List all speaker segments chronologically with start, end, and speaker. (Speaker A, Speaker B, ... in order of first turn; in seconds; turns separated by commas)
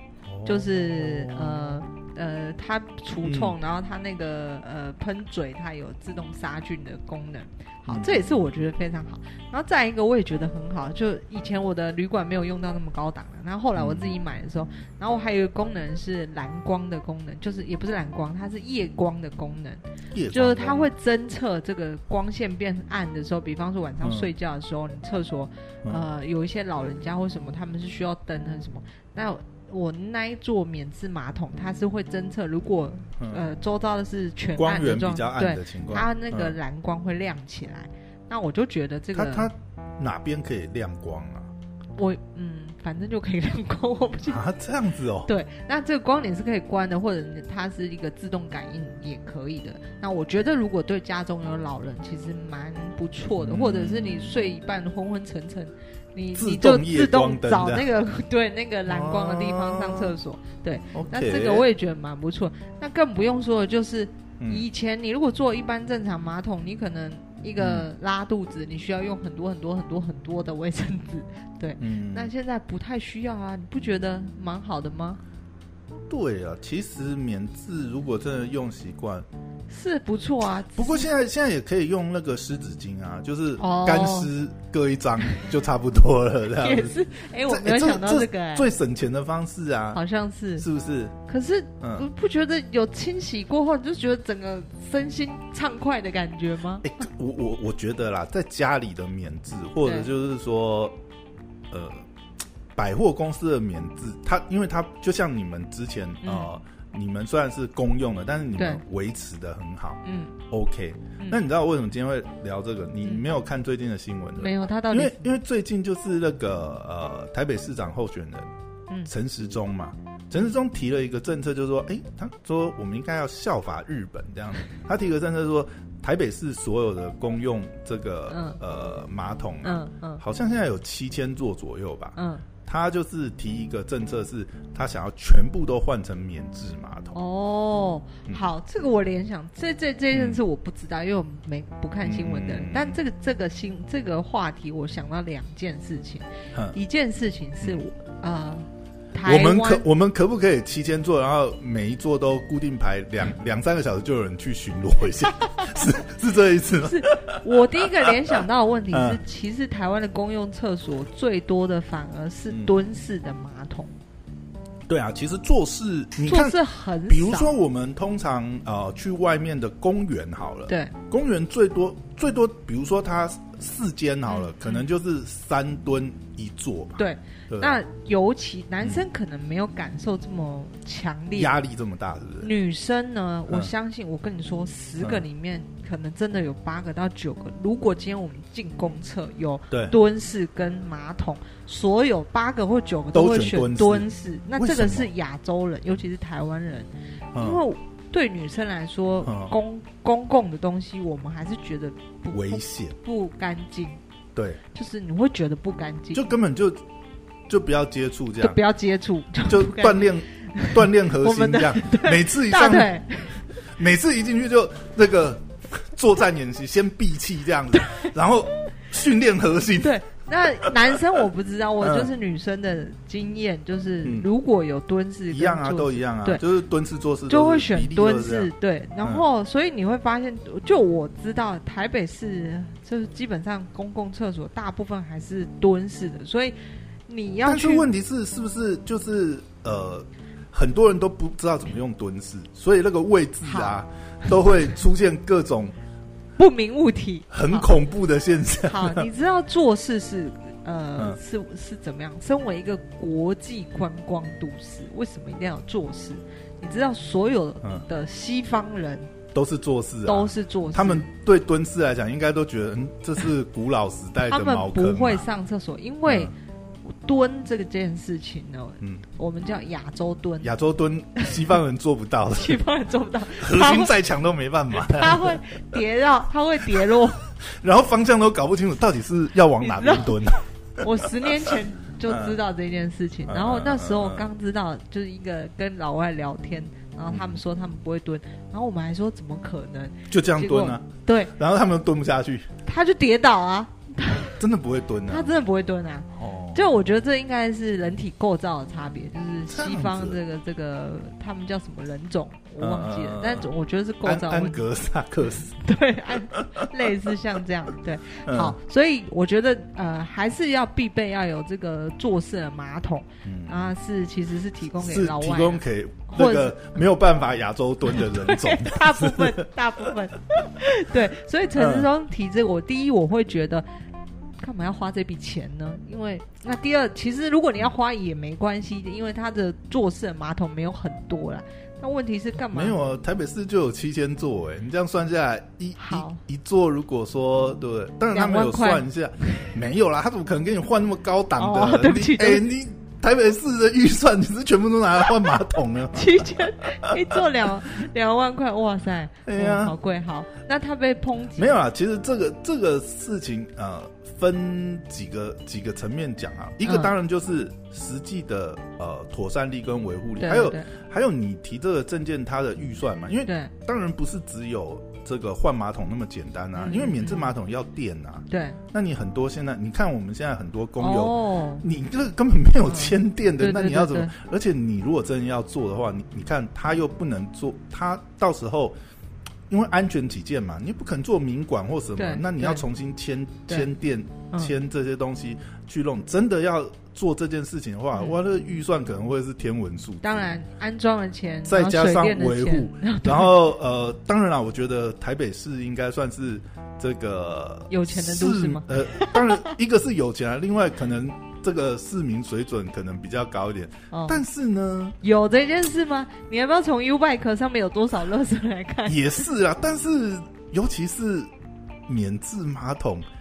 Speaker A: 0.3-1.7, Speaker B: 0.5-39.5, Speaker A: 3.2-3.5, Speaker A: 7.9-8.4, Speaker A: 13.8-14.1, Speaker A: 20.1-20.9, Speaker A: 24.0-24.3, Speaker A: 33.2-33.4, Speaker A: 34.5-36.6, Speaker A: 39.1-41.5, Speaker B: 42.0-44.4, Speaker A: 44.3-45.3, Speaker B: 45.3-75.2, Speaker A: 53.4-54.3, Speaker A: 56.4-57.8, Speaker A: 58.9-60.2, Speaker A: 60.9-61.7, Speaker A: 64.4-64.7, Speaker A: 67.6-67.9, Speaker A: 71.8-72.3, Speaker A: 76.1-79.3, Speaker B: 79.7-81.1, Speaker A: 80.8-90.0, Speaker B: 83.6-84.3, Speaker B: 86.6-88.7, Speaker B: 89.9-90.7, Speaker A: 90.6-91.2, Speaker B: 91.3-96.9, Speaker A: 91.8-92.1, Speaker A: 96.8-101.0, Speaker B: 99.8-100.1, Speaker A: 101.7-102.0, Speaker A: 102.8-118.5, Speaker B: 106.2-106.5, Speaker B: 110.0-110.4, Speaker B: 114.4-115.3, Speaker A: 119.1-137.2, Speaker B: 128.3-128.6, Speaker B: 129.6-130.2, Speaker B: 132.2-132.5, Speaker B: 137.1-149.8, Speaker A: 140.1-140.4, Speaker A: 142.0-143.0, Speaker A: 149.2-158.4, Speaker B: 155.6-155.8, Speaker B: 156.8-163.9, Speaker A: 158.9-159.2, Speaker A: 164.9-177.8, Speaker B: 166.2-167.5, Speaker B: 170.7-170.9, Speaker B: 174.3-174.8, Speaker B: 177.0-181.5, Speaker A: 181.3-182.5, Speaker B: 182.4-204.0, Speaker A: 193.1-195.1, Speaker A: 197.3-197.6, Speaker A: 199.2-199.5, Speaker A: 202.3-203.0, Speaker A: 204.3-204.6, Speaker B: 204.7-206.3, Speaker A: 206.1-206.8, Speaker A: 207.5-208.6, Speaker B: 208.4-213.4, Speaker A: 209.5-213.0, Speaker A: 213.7-220.0, Speaker B: 219.8-226.4, Speaker A: 220.6-221.0, Speaker A: 221.8-222.1, Speaker A: 225.3-228.5, Speaker B: 227.3-236.6, Speaker B: 237.1-237.9, Speaker A: 237.4-245.8, Speaker B: 243.4-243.8, Speaker B: 246.4-247.7, Speaker A: 247.3-249.1, Speaker B: 248.7-259.1, Speaker A: 259.3-265.2, Speaker B: 260.1-261.1, Speaker B: 264.2-266.3, Speaker A: 266.1-266.3, Speaker B: 266.9-270.5, Speaker A: 270.4-272.6, Speaker B: 272.4-273.9, Speaker A: 273.4-275.4, Speaker B: 274.7-277.3, Speaker A: 276.7-282.4, Speaker B: 279.6-280.2, Speaker B: 280.8-291.3, Speaker A: 283.3-284.3, Speaker A: 287.1-287.4, Speaker A: 290.1-292.5, Speaker B: 292.7-294.4, Speaker A: 294.2-295.3, Speaker B: 295.1-304.6, Speaker A: 296.1-296.6, Speaker A: 299.5-300.2, Speaker A: 302.6-303.5, Speaker A: 304.0-305.6, Speaker B: 305.5-316.6, Speaker A: 306.1-306.6, Speaker A: 308.2-308.6, Speaker A: 313.2-313.6, Speaker A: 314.8-319.4, Speaker B: 317.9-323.7, Speaker A: 321.6-321.9, Speaker B: 324.4-332.8, Speaker A: 332.5-346.9, Speaker B: 335.8-336.2, Speaker B: 338.1-338.9, Speaker B: 341.4-342.5, Speaker B: 345.9-351.6, Speaker A: 349.3-349.8, Speaker A: 351.4-378.8, Speaker B: 356.6-356.9, Speaker B: 360.2-360.7, Speaker B: 363.2-363.5, Speaker B: 366.6-367.3, Speaker B: 368.3-368.6, Speaker B: 370.8-371.6, Speaker B: 372.7-374.1, Speaker A: 379.5-390.2, Speaker B: 382.0-382.6, Speaker B: 390.0-393.4, Speaker A: 391.5-405.0, Speaker B: 397.7-399.5, Speaker B: 403.9-404.2, Speaker B: 405.0-409.2, Speaker A: 408.9-411.3, Speaker A: 411.9-413.1